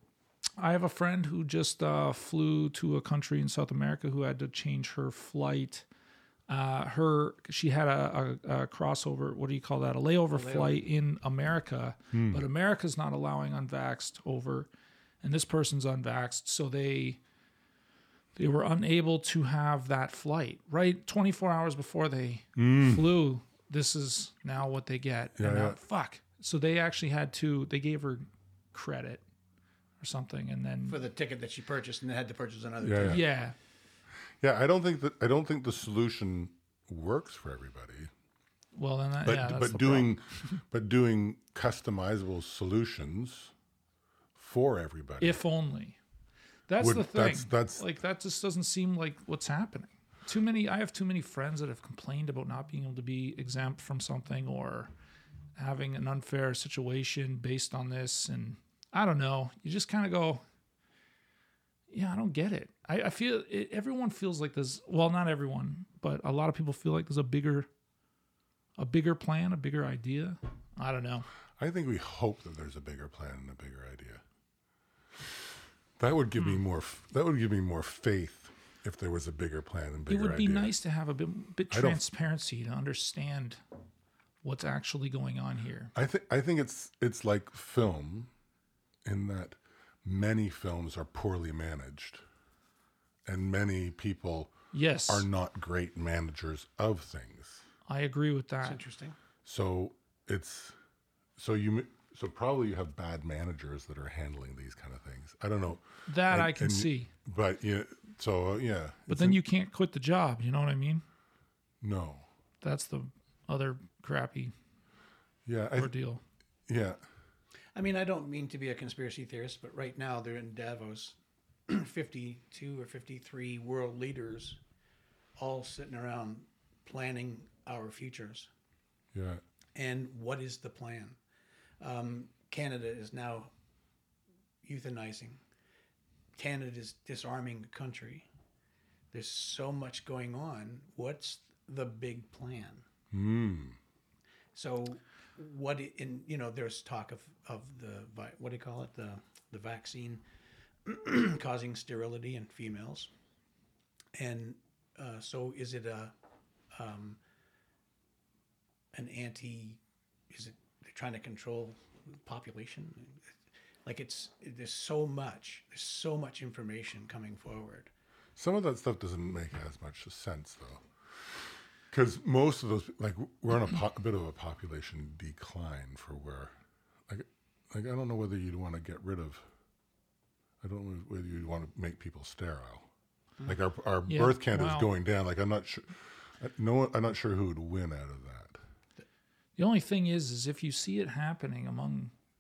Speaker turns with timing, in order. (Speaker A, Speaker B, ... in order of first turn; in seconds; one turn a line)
Speaker A: 0.6-5.9
Speaker A: 6.5-14.7
Speaker B: 10.3-10.8
Speaker C: 12.1-12.4
Speaker A: 15.2-17.2
Speaker A: 18.4-29.2
Speaker C: 22.6-23.1
Speaker C: 25.4-25.8
Speaker A: 30.0-31.0
Speaker B: 30.9-33.3
Speaker C: 32.8-33.2
Speaker A: 33.0-33.5
Speaker C: 34.4-38.1
Speaker A: 38.8-40.1
Speaker C: 39.2-43.5
Speaker C: 44.4-45.4
Speaker A: 45.2-46.0
Speaker A: 46.7-54.9
Speaker C: 46.8-47.8
Speaker A: 55.6-60.4
Speaker A: 61.9-67.7
Speaker A: 68.8-71.3
Speaker C: 71.6-74.2
Speaker C: 76.0-80.7
Speaker A: 80.1-83.6
Speaker C: 81.7-82.0
Speaker A: 84.4-85.9
Speaker C: 86.0-88.3
Speaker C: 89.0-92.2
Speaker C: 93.3-94.5
Speaker A: 94.7-95.3
Speaker C: 95.1-97.6
Speaker A: 97.9-98.8
Speaker B: 98.6-99.2
Speaker C: 99.5-100.8
Speaker C: 101.4-109.4
Speaker A: 106.1-107.1
Speaker A: 109.1-111.0
Speaker C: 111.8-112.3
Speaker A: 112.6-114.5
Speaker C: 115.5-115.9
Speaker A: 115.8-116.2
Speaker C: 116.7-117.0
Speaker B: 117.8-124.6
Speaker B: 125.4-128.5
Speaker C: 129.1-129.4
Speaker B: 129.8-131.2
Speaker B: 131.8-133.5
Speaker B: 134.6-135.4
Speaker B: 136.4-138.3
Speaker B: 139.1-142.8
Speaker C: 143.1-143.8
Speaker B: 144.5-150.2
Speaker B: 150.8-153.1
Speaker B: 154.2-156.1
Speaker B: 156.7-157.2
Speaker B: 158.9-163.3
Speaker B: 163.8-167.9
Speaker C: 168.4-170.8
Speaker C: 171.9-176.5
Speaker C: 177.1-179.4
Speaker C: 180.6-182.9
Speaker C: 183.5-188.6
Speaker A: 184.1-184.9
Speaker A: 189.6-192.1